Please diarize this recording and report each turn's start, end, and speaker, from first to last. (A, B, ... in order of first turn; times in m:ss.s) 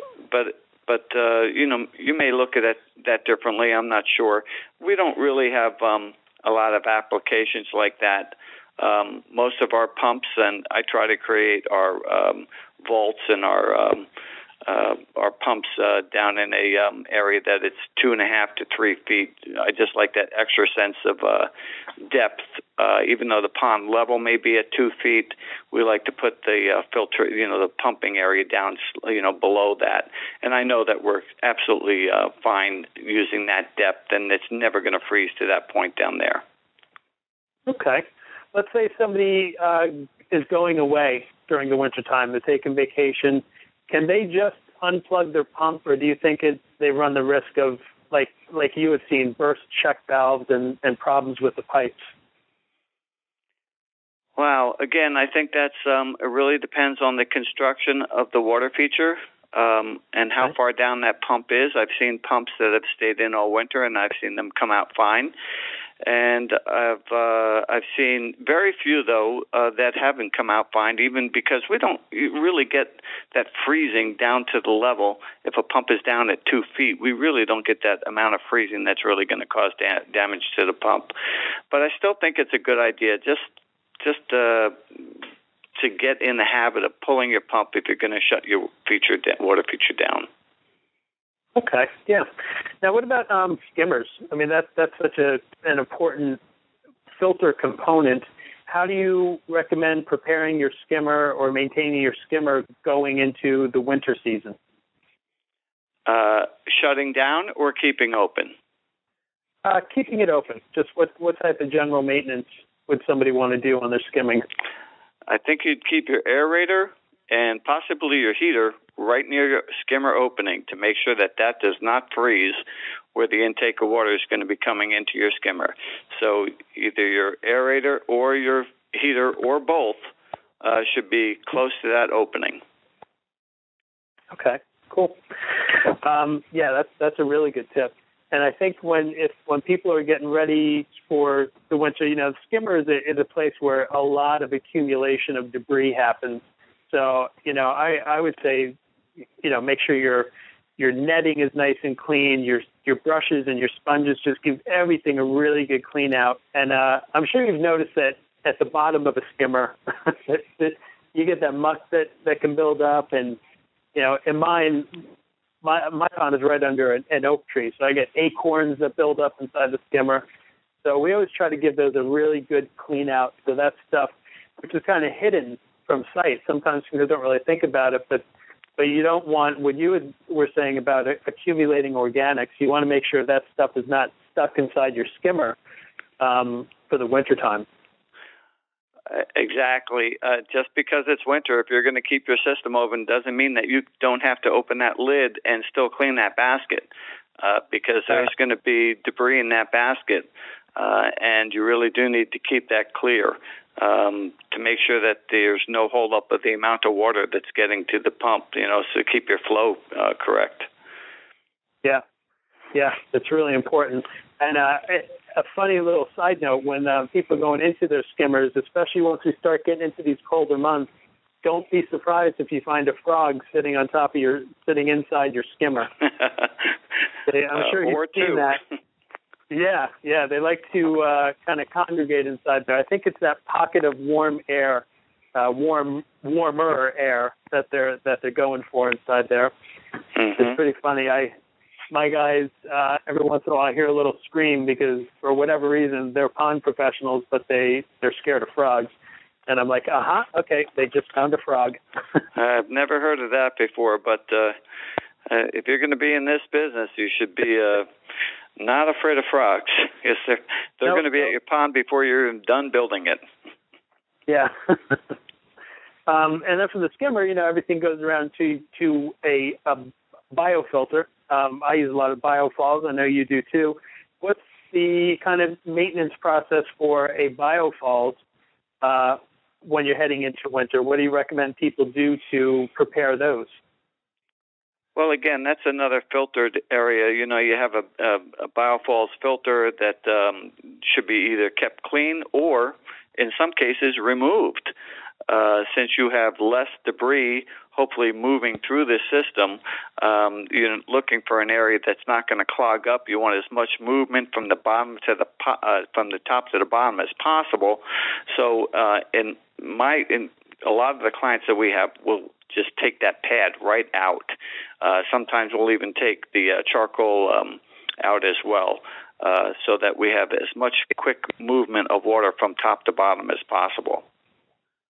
0:00.3-0:14.1 A
0:14.7-0:21.5 A
0:22.1-0:36.4 A
0:37.7-0:52.1 B
0:54.4-1:05.3 A
1:06.0-1:21.1 A
1:21.7-1:23.5 A
1:24.0-1:25.2 A
1:25.8-1:30.3 A
1:31.6-1:32.3 B
1:32.8-1:36.4 B
1:37.2-1:44.6 B
1:46.1-1:48.5 A
1:49.6-1:54.5 B
1:55.3-2:02.6 A
2:03.2-2:10.0 A
2:10.6-2:12.6 A
2:14.3-2:28.8 B
2:29.4-2:43.4 B
2:44.0-2:45.0 B
2:45.6-2:50.2 B
2:50.8-2:58.2 B
2:58.8-3:05.6 B
3:06.2-3:07.7 B
3:09.1-3:16.9 A
3:17.4-3:30.7 A
3:32.7-3:40.9 B
3:41.4-3:45.9 B
3:47.3-3:48.6 B
3:47.6-3:48.6 A
3:49.5-3:59.5 B
4:00.2-4:00.6 A
4:00.4-4:01.3 B
4:01.9-4:08.9 B
4:09.5-4:11.8 B
4:12.4-4:14.6 A
4:15.3-4:17.9 A
4:18.6-4:23.2 A
4:24.3-4:25.0 B
4:26.1-4:38.2 B
4:38.8-4:43.6 B
4:45.0-4:54.7 A
4:55.3-5:24.0 A